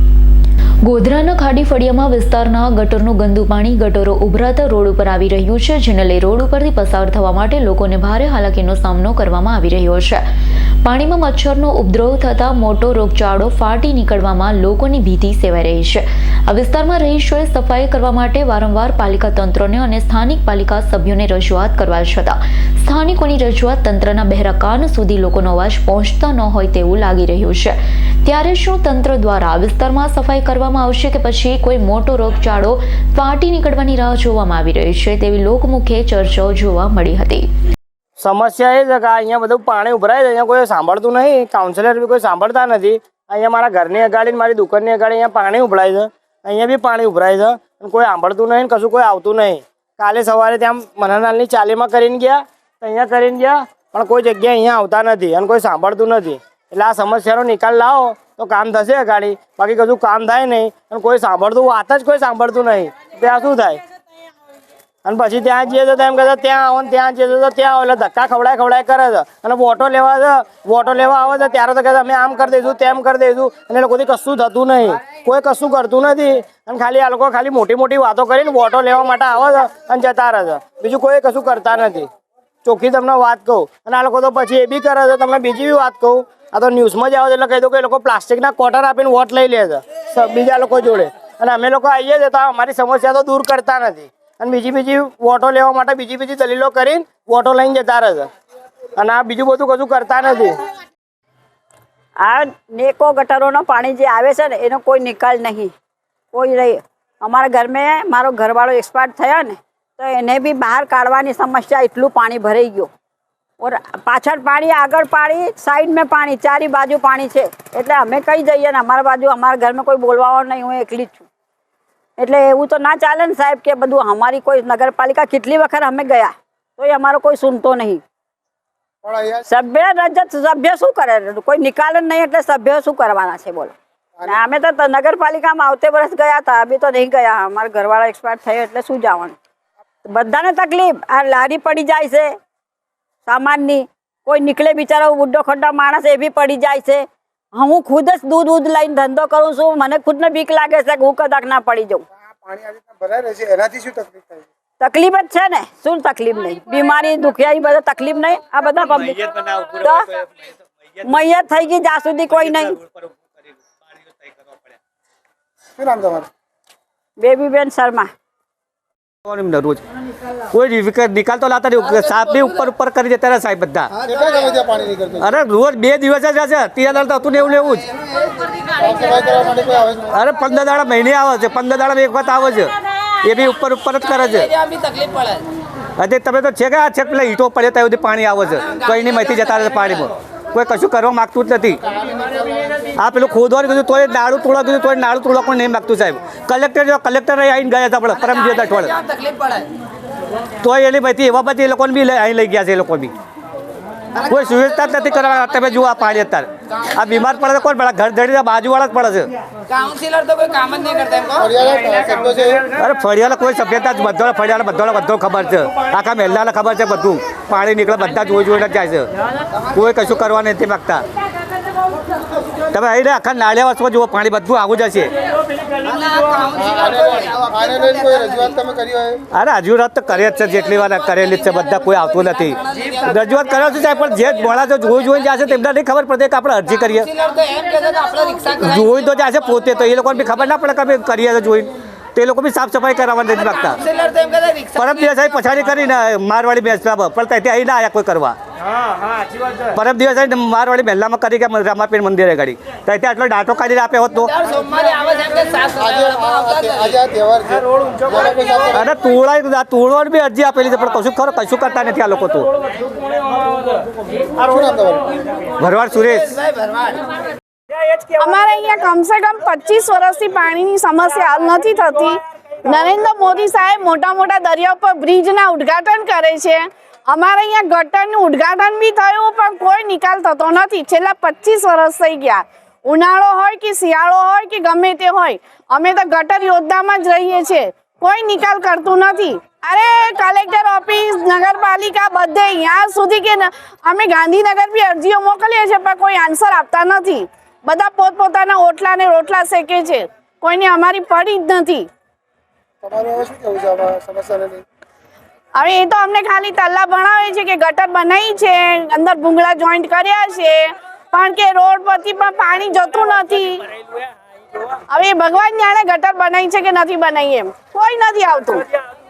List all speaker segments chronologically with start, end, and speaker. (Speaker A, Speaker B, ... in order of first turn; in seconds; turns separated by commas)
Speaker A: 0.8-10.2, Speaker A: 10.8-37.5, Speaker B: 38.2-63.8, Speaker B: 65.0-82.1, Speaker B: 82.6-98.3, Speaker B: 99.0-100.6, Speaker C: 102.2-105.7, Speaker C: 106.3-112.9, Speaker C: 113.6-121.3, Speaker C: 122.2-128.0, Speaker D: 129.0-129.4, Speaker C: 129.5-139.3, Speaker C: 140.1-142.4, Speaker C: 143.3-152.0, Speaker D: 152.4-154.4, Speaker C: 154.8-159.2, Speaker E: 158.8-161.3, Speaker C: 159.8-160.1, Speaker C: 161.0-162.8, Speaker E: 162.3-164.8, Speaker D: 165.8-166.3, Speaker C: 167.2-168.1, Speaker E: 169.2-169.8, Speaker E: 170.5-173.9, Speaker D: 174.1-175.2, Speaker E: 175.2-177.9, Speaker D: 178.8-180.1, Speaker E: 180.1-184.5, Speaker F: 184.6-185.4, Speaker E: 186.0-191.8, Speaker E: 193.0-199.0, Speaker F: 199.1-199.7, Speaker E: 200.6-203.1, Speaker E: 204.2-209.3, Speaker F: 209.7-211.4, Speaker D: 211.4-212.6, Speaker E: 212.7-219.1, Speaker E: 219.6-221.0, Speaker E: 222.7-225.1, Speaker F: 225.8-227.5, Speaker D: 226.8-229.2, Speaker E: 229.3-237.1, Speaker F: 237.2-238.5, Speaker E: 238.4-243.8, Speaker F: 243.9-244.8, Speaker E: 244.8-248.3, Speaker B: 248.9-249.6, Speaker E: 249.7-254.3, Speaker F: 254.4-256.5, Speaker D: 255.8-258.6, Speaker E: 258.7-262.5, Speaker D: 264.4-265.1, Speaker E: 265.6-266.4, Speaker G: 268.1-301.9, Speaker D: 302.8-304.6, Speaker G: 305.5-313.6, Speaker G: 314.9-318.6